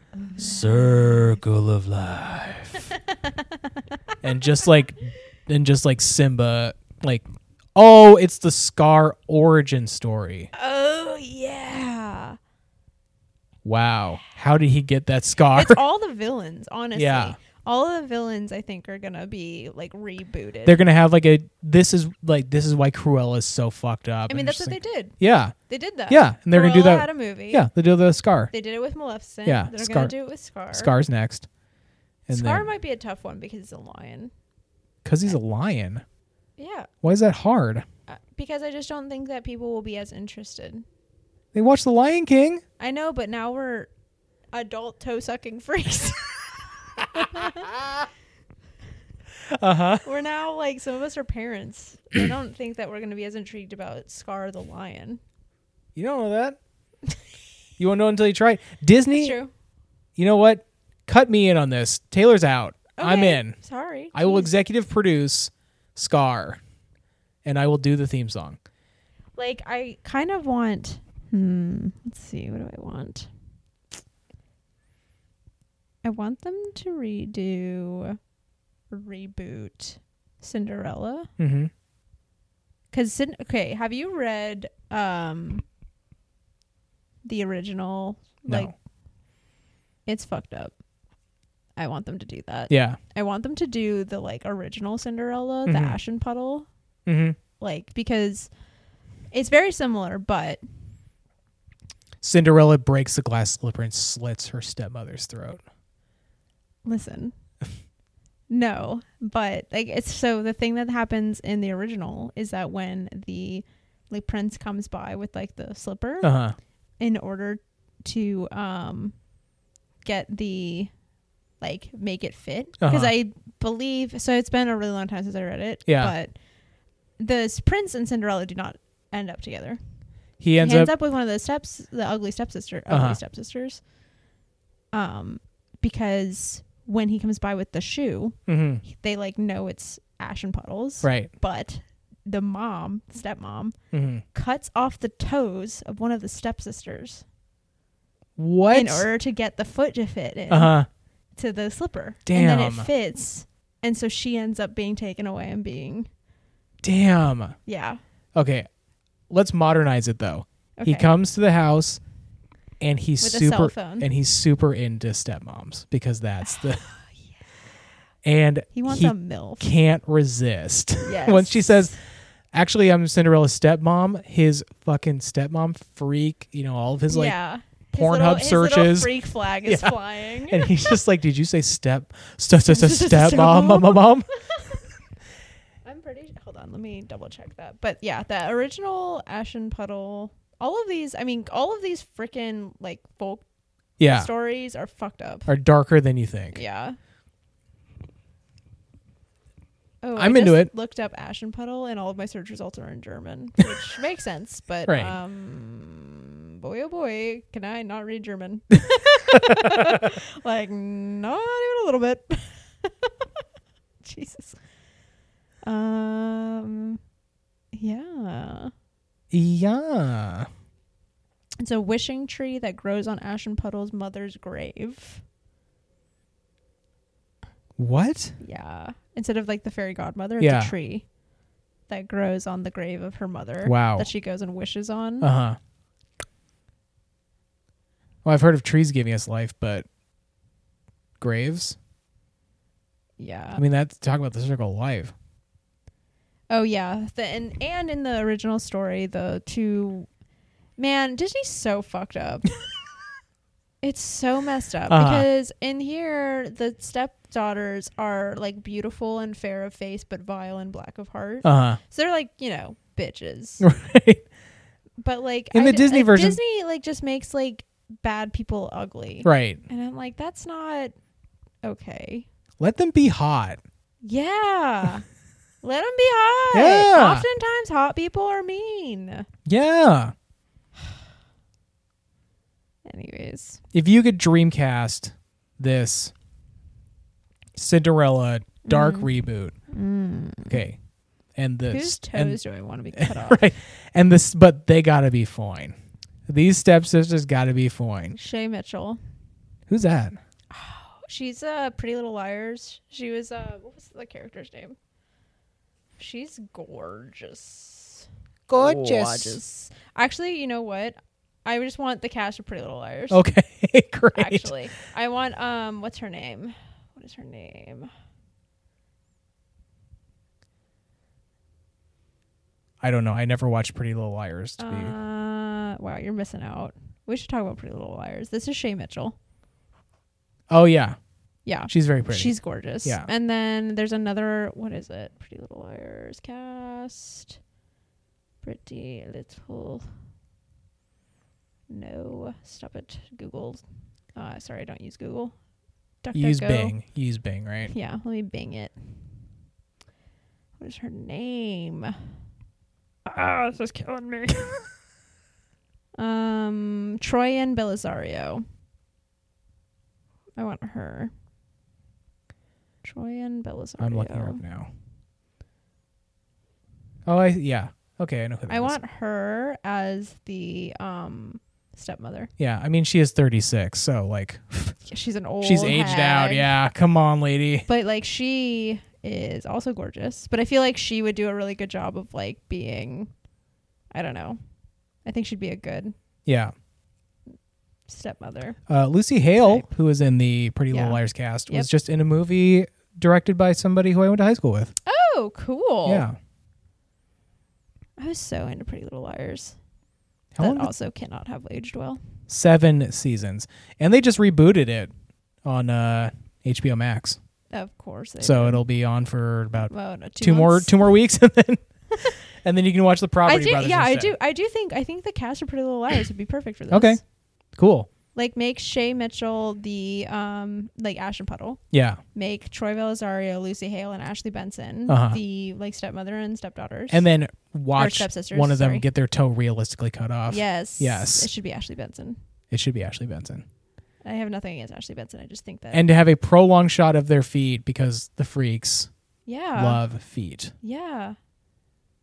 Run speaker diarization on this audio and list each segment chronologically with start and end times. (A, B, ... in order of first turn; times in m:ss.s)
0:00.2-0:00.6 A
0:00.4-0:02.9 B
0:03.1-0:03.8 A
0:04.2-0:10.5 B
0:10.5-0:12.4 A
0:13.6-0:15.8 B
0:15.5-0:20.8 A
0:17.0-0:17.4 B
0:20.6-0:25.6 B
0:24.3-0:25.2 A
0:25.7-0:27.7 A
0:26.1-0:28.5 B
0:28.5-0:30.9 A
0:29.4-0:30.1 B
0:30.7-0:31.5 B
0:32.3-0:32.6 B
0:32.3-0:34.3 A
0:35.0-0:36.0 B
0:36.6-0:36.9 A
0:37.0-0:37.8 B
0:38.1-0:40.8 A
0:41.5-0:42.6 B
0:42.8-0:43.9 A
0:44.5-0:47.7 A
0:47.2-0:48.0 B
0:49.5-0:50.0 B
0:50.0-0:55.2 A
0:56.0-0:56.6 B
0:57.8-0:59.4 B
0:59.1-0:59.5 A
1:00.2-1:03.6 B
1:03.0-1:04.5 A
1:04.1-1:06.6 B
1:07.4-1:08.6 B
1:09.4-1:13.3 A
1:16.0-1:18.2 A
1:18.9-1:21.3 A
1:21.4-1:21.7 B
1:22.9-1:25.6 A
1:27.2-1:28.7 A
1:28.5-1:28.7 B
1:30.0-1:30.7 A
1:31.8-1:36.7 A
1:32.7-1:33.0 B
1:35.6-1:36.0 B
1:37.0-1:37.4 B
1:37.6-1:38.5 A
1:39.3-1:40.6 A
1:42.2-1:45.6 B
1:46.8-1:47.3 A
1:48.5-1:56.3 A
1:56.2-1:56.6 B
1:57.0-1:59.1 A
2:00.0-2:00.9 A
2:01.6-2:06.3 A
2:02.8-2:03.1 B
2:05.9-2:06.1 B
2:07.2-2:09.8 A
2:10.4-2:10.9 B
2:10.6-2:13.8 A
2:12.9-2:13.2 B
2:14.9-2:23.8 A
2:18.5-2:18.8 B
2:21.0-2:21.3 B
2:23.9-2:24.2 B
2:24.3-2:27.2 A
2:28.4-2:29.1 B
2:28.7-2:30.7 A
2:30.5-2:30.9 B
2:31.4-2:36.1 A
2:32.2-2:32.9 B
2:36.8-2:37.6 B
2:37.6-2:38.0 A
2:38.3-2:38.7 B
2:39.3-2:42.0 B
2:40.8-2:41.1 A
2:42.8-2:46.8 B
2:43.2-2:44.1 A
2:46.4-2:47.2 A
2:48.2-2:51.9 B
2:48.7-2:49.7 A
2:51.0-2:52.0 A
2:52.5-2:57.3 B
2:57.1-3:01.0 A
2:57.9-2:59.1 B
2:59.6-3:04.3 B
3:02.7-3:04.8 A
3:05.8-3:13.4 A
3:14.0-3:14.3 B
3:14.0-3:15.5 A
3:15.5-3:16.6 B
3:16.5-3:17.0 A
3:20.0-3:33.2 A
3:20.2-3:20.7 B
3:24.8-3:25.1 B
3:29.3-3:30.1 B
3:34.0-3:34.6 A
3:35.6-3:37.0 A
3:37.7-3:38.7 A
3:39.3-3:40.5 B
3:41.6-3:45.2 A
3:47.8-3:48.4 B
3:48.4-3:51.0 A
3:50.4-3:50.7 B
3:51.9-3:55.3 A
3:53.6-3:54.1 B
3:55.2-3:55.6 B
3:58.2-3:59.8 B
4:01.2-4:01.8 B
4:03.2-4:03.6 A
4:03.6-4:05.1 B
4:06.5-4:10.1 A
4:10.8-4:12.5 A
4:13.8-4:23.6 A
4:14.9-4:15.3 B
4:21.4-4:21.8 B
4:23.6-4:24.2 B
4:25.0-4:30.9 A
4:25.5-4:26.4 B
4:29.2-4:29.6 B
4:31.6-4:32.2 A
4:32.6-4:33.6 B
4:34.0-4:35.0 A
4:35.6-4:39.3 A
4:36.5-4:37.3 B
4:39.4-4:40.1 B
4:42.8-4:43.6 A
4:43.7-4:46.1 B
4:47.6-4:49.5 B
4:48.6-4:49.1 A
4:49.7-4:50.6 A
4:50.5-4:50.8 B
4:51.4-4:52.4 B
4:51.7-4:53.5 A
4:52.9-4:55.8 B
4:56.3-4:58.2 B
4:58.1-4:59.0 A
4:59.7-5:00.2 B
5:00.5-5:04.8 A
5:06.0-5:13.2 A
5:08.5-5:09.4 B
5:13.1-5:14.5 B
5:14.1-5:17.9 A
5:22.8-5:24.9 B
5:24.6-5:29.2 A
5:30.5-5:31.0 B
5:31.4-5:37.4 A
5:31.7-5:33.1 B
5:38.4-5:39.8 A
5:41.7-5:43.6 A
5:44.2-5:45.3 A
5:46.0-5:46.8 A
5:46.1-5:47.7 B
5:47.7-5:48.7 A
5:50.6-5:52.0 A
5:53.0-5:54.5 A
5:56.0-5:58.4 A
6:00.4-6:01.1 A
6:02.8-6:04.4 A
6:03.8-6:04.7 B
6:07.0-6:08.7 B
6:08.5-6:12.3 A
6:12.4-6:14.8 B
6:14.8-6:16.5 A
6:15.4-6:17.7 B
6:17.7-6:23.1 A
6:23.9-6:24.4 A
6:25.0-6:25.9 A
6:26.2-6:26.5 B
6:27.9-6:28.6 A
6:28.7-6:34.7 B
6:29.4-6:29.7 A
6:30.7-6:31.7 A
6:34.8-6:36.0 A
6:35.8-6:36.2 B
6:38.0-6:39.6 A
6:40.3-6:40.7 B
6:40.4-6:42.0 A
6:42.3-6:44.9 B
6:45.4-6:47.2 B
6:47.5-6:48.6 A
6:48.2-6:54.1 B
6:49.7-6:50.7 A
6:53.2-6:57.0 A
6:56.7-6:57.0 B
6:57.6-6:57.9 B
6:58.1-7:01.6 A
7:01.7-7:02.0 B
7:02.1-7:07.0 A
7:04.9-7:05.2 B
7:06.9-7:11.3 B
7:07.8-7:08.8 A
7:10.3-7:12.2 A
7:12.5-7:13.4 B
7:14.0-7:15.9 A
7:15.7-7:18.9 B
7:19.2-7:19.8 A
7:19.5-7:20.5 B
7:20.6-7:21.2 A